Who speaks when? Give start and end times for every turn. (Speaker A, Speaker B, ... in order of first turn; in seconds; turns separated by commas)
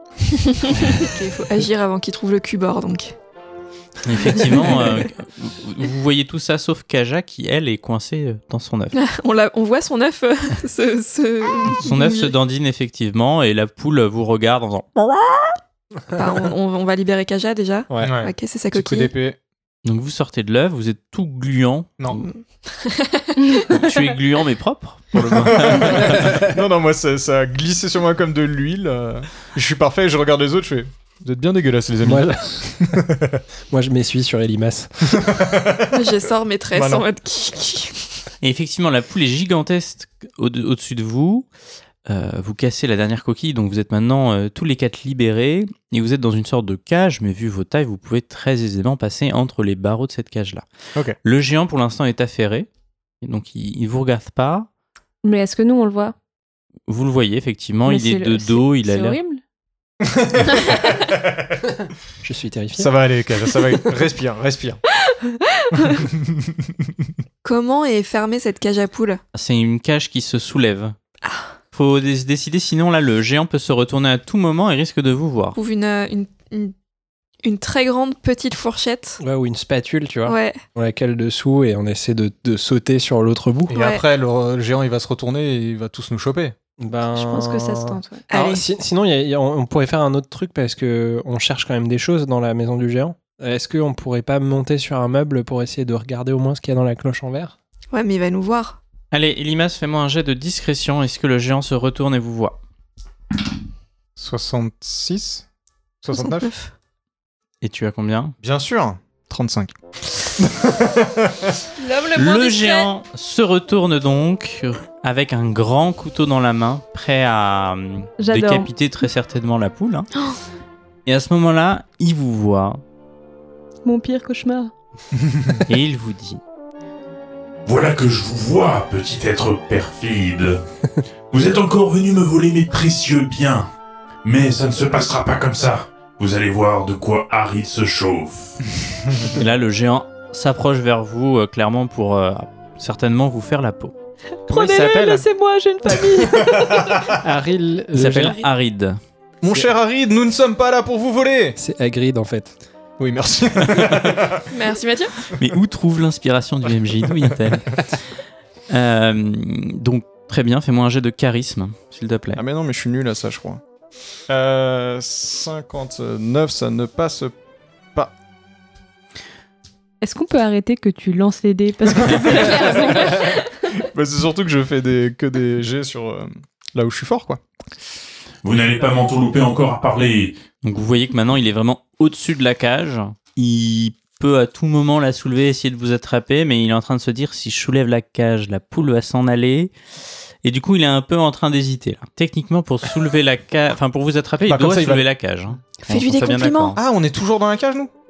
Speaker A: 0.3-3.2, Speaker B: 4.0-9.0, Speaker A: 4.3-5.1, Speaker A: 8.9-12.3, Speaker B: 11.8-14.9, Speaker A: 16.1-19.1, Speaker C: 17.9-18.2, Speaker D: 18.0-19.4, Speaker B: 19.9-22.2, Speaker A: 22.2-23.7, Speaker E: 23.5-23.8, Speaker B: 23.7-26.4, Speaker D: 25.1-33.4, Speaker C: 26.0-26.6, Speaker C: 32.0-33.0, Speaker C: 33.7-35.3, Speaker D: 35.1-36.2, Speaker A: 35.9-38.3, Speaker D: 36.7-37.1, Speaker B: 38.4-41.5, Speaker B: 42.1-50.6, Speaker B: 51.2-52.7, Speaker B: 53.2-54.7, Speaker E: 55.2-56.1, Speaker B: 56.9-59.2, Speaker E: 57.9-59.4, Speaker D: 60.0-61.6, Speaker C: 62.2-62.9, Speaker D: 62.8-64.8, Speaker E: 65.5-66.0, Speaker D: 65.9-66.6, Speaker A: 67.4-69.2, Speaker B: 69.3-71.0, Speaker A: 71.2-71.5, Speaker B: 71.7-75.6, Speaker A: 75.5-76.7, Speaker A: 77.4-79.2, Speaker C: 79.2-83.8, Speaker A: 80.3-80.6, Speaker D: 83.7-86.5, Speaker A: 83.8-84.0, Speaker C: 86.8-97.6, Speaker E: 87.1-88.2, Speaker A: 88.3-88.6, Speaker A: 97.9-98.8, Speaker B: 99.1-102.6, Speaker D: 104.2-105.5, Speaker D: 106.0-106.5, Speaker A: 106.2-106.7, Speaker B: 107.6-108.4, Speaker D: 108.4-109.7, Speaker D: 110.4-111.6, Speaker A: 111.8-112.9, Speaker B: 112.2-120.1, Speaker E: 118.2-118.7, Speaker B: 121.1-122.8, Speaker E: 123.8-124.7, Speaker D: 125.2-125.6, Speaker B: 125.7-126.4, Speaker F: 127.7-130.6, Speaker F: 131.3-133.7, Speaker F: 134.2-138.6, Speaker D: 139.1-139.4, Speaker B: 139.3-143.9, Speaker E: 144.5-147.1, Speaker B: 144.5-144.9, Speaker C: 144.6-145.2, Speaker D: 146.0-147.2, Speaker C: 147.2-148.4, Speaker B: 147.9-149.0, Speaker D: 149.4-151.6, Speaker C: 151.6-152.5, Speaker D: 153.0-154.5, Speaker A: 154.5-155.2, Speaker B: 155.4-157.9, Speaker B: 158.7-162.4, Speaker D: 162.3-163.6, Speaker D: 164.3-167.3, Speaker E: 170.0-173.7, Speaker D: 172.1-177.4, Speaker F: 178.4-180.4, Speaker B: 180.6-189.7, Speaker B: 190.4-196.8, Speaker D: 194.5-195.0, Speaker A: 195.8-196.8, Speaker D: 196.8-197.9